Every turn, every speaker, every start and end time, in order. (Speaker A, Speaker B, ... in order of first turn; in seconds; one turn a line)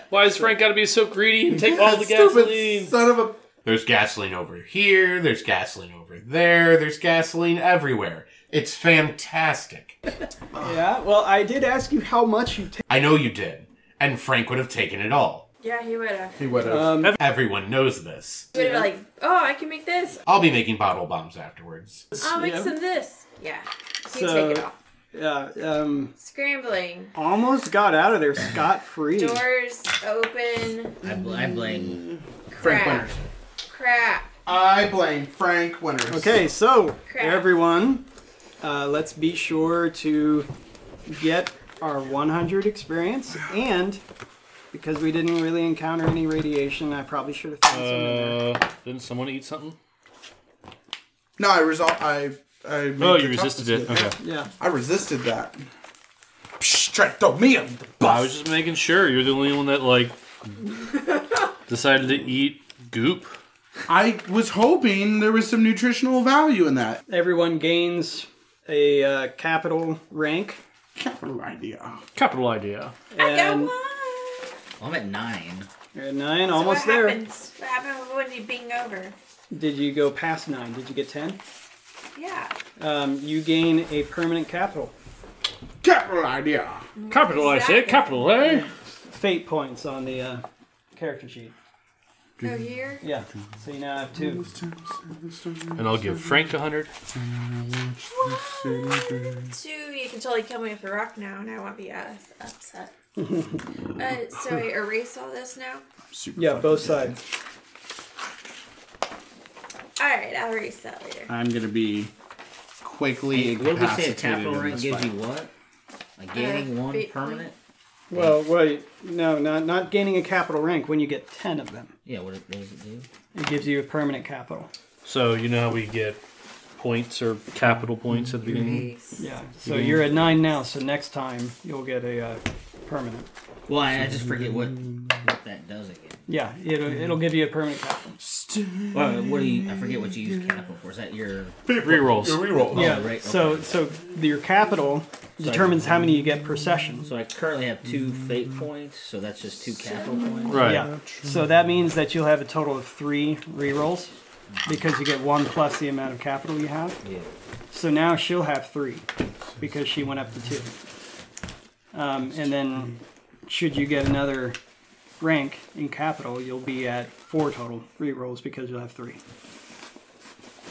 Speaker A: 0.1-3.0
Speaker B: 1.5-3.4
Speaker C: 3.6-10.0
Speaker D: 10.6-12.8
Speaker C: 12.9-15.5
Speaker E: 15.6-16.6
Speaker B: 16.4-17.1
Speaker D: 16.6-17.2
Speaker C: 17.2-18.5
Speaker E: 18.5-20.2
Speaker D: 18.5-18.9
Speaker C: 20.3-22.1
Speaker D: 22.1-22.8
Speaker E: 22.2-24.8
Speaker D: 24.1-26.1
Speaker E: 26.2-27.1
Speaker D: 27.1-29.5
Speaker E: 29.1-31.0
Speaker F: 31.0-32.0
Speaker B: 31.1-33.2
Speaker E: 32.5-33.2
Speaker E: 33.7-34.3
Speaker B: 34.5-36.4
Speaker D: 36.1-38.0
Speaker E: 37.1-37.5
Speaker D: 38.6-40.5
Speaker D: 41.1-44.0
Speaker D: 44.7-48.5
Speaker A: 47.7-49.8
Speaker B: 51.4-55.6
Speaker A: 53.0-54.2
Speaker D: 54.2-54.5
Speaker B: 56.6-58.4
Speaker A: 58.0-60.2
Speaker A: 61.7-63.4
Speaker B: 63.9-67.0
Speaker D: 67.1-70.6
Speaker B: 71.0-72.1
Speaker A: 72.2-73.0
Speaker D: 73.1-73.7
Speaker E: 73.2-74.6
Speaker F: 74.8-75.7
Speaker D: 75.9-77.2
Speaker E: 76.5-79.2
Speaker D: 79.5-81.4
Speaker E: 82.2-82.5
Speaker D: 82.8-84.9
Speaker B: 85.8-86.9
Speaker E: 87.0-88.4
Speaker A: 87.1-88.7
Speaker D: 89.1-90.4
Speaker D: 91.0-91.5
Speaker E: 92.4-93.0
Speaker D: 93.0-94.5
Speaker B: 94.1-96.5
Speaker A: 95.8-96.9
Speaker B: 97.1-99.5
Speaker E: 98.2-102.9
Speaker D: 103.2-103.6
Speaker E: 104.0-105.8
Speaker B: 106.1-107.2
Speaker D: 106.4-107.2
Speaker E: 110.0-111.3
Speaker B: 111.3-112.1
Speaker B: 112.8-115.1
Speaker F: 113.3-115.5
Speaker F: 116.2-117.6
Speaker E: 116.3-117.5
Speaker D: 118.1-121.9
Speaker F: 118.1-118.4
Speaker F: 122.1-123.1
Speaker D: 123.3-124.7
Speaker A: 125.0-126.2
Speaker A: 126.8-128.9
Speaker E: 128.6-129.2
Speaker D: 129.2-133.3
Speaker A: 129.6-130.3
Speaker F: 133.7-136.3
Speaker B: 134.1-135.0
Speaker D: 136.3-138.2
Speaker B: 138.2-140.7
Speaker F: 138.9-141.7
Speaker B: 141.7-143.0
Speaker A: 141.7-142.7
Speaker F: 142.7-143.7
Speaker D: 142.7-147.1
Speaker F: 145.4-145.8
Speaker F: 147.1-150.6
Speaker B: 147.9-148.6
Speaker E: 149.9-150.6
Speaker B: 150.5-151.5
Speaker A: 150.5-150.9
Speaker D: 150.6-157.0
Speaker F: 157.0-157.4
Speaker D: 157.7-159.1
Speaker D: 159.6-160.8
Speaker D: 161.9-164.6
Speaker D: 165.2-169.2